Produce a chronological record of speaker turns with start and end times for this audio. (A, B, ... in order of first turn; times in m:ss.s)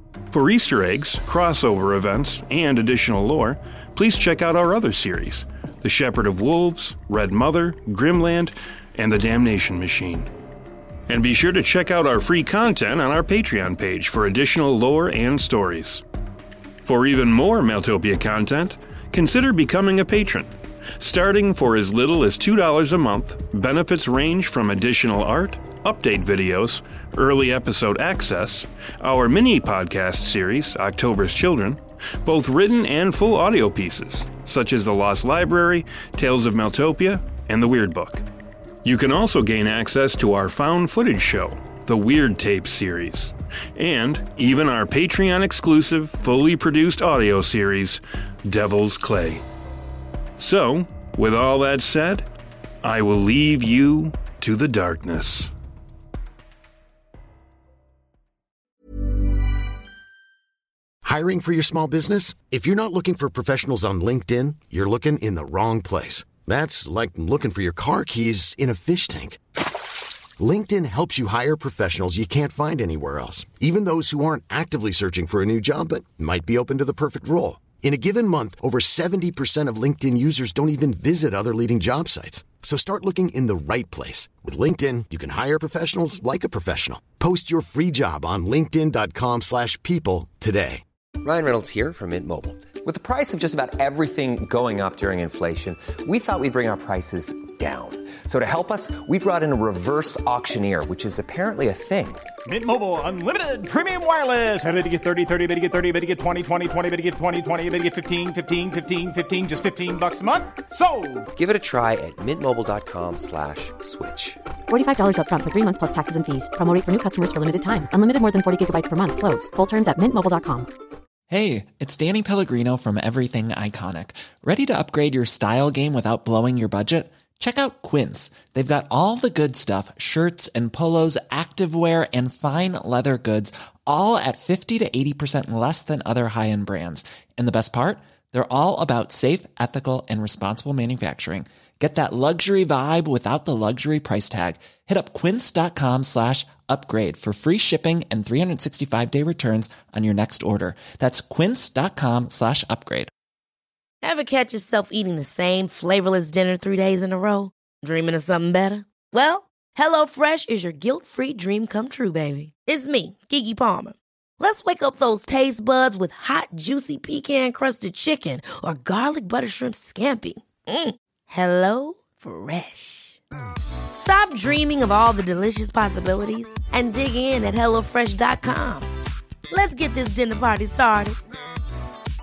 0:00.3-0:10.3 A
0:11.1-0:16.0 A
0:16.8-0:38.2 A
0:38.8-0:49.4 A
0:50.4-0:52.3 A
0:52.8-0:55.5 A
1:01.0-1:09.4 B
1:10.4-1:30.8 B
1:31.2-1:42.2 C
1:42.5-1:51.3 D
1:51.3-1:54.4 C
1:54.7-2:00.7 E
2:01.3-2:33.1 F
2:34.0-2:53.2 G
2:54.0-2:58.9 G
2:59.5-3:01.2 G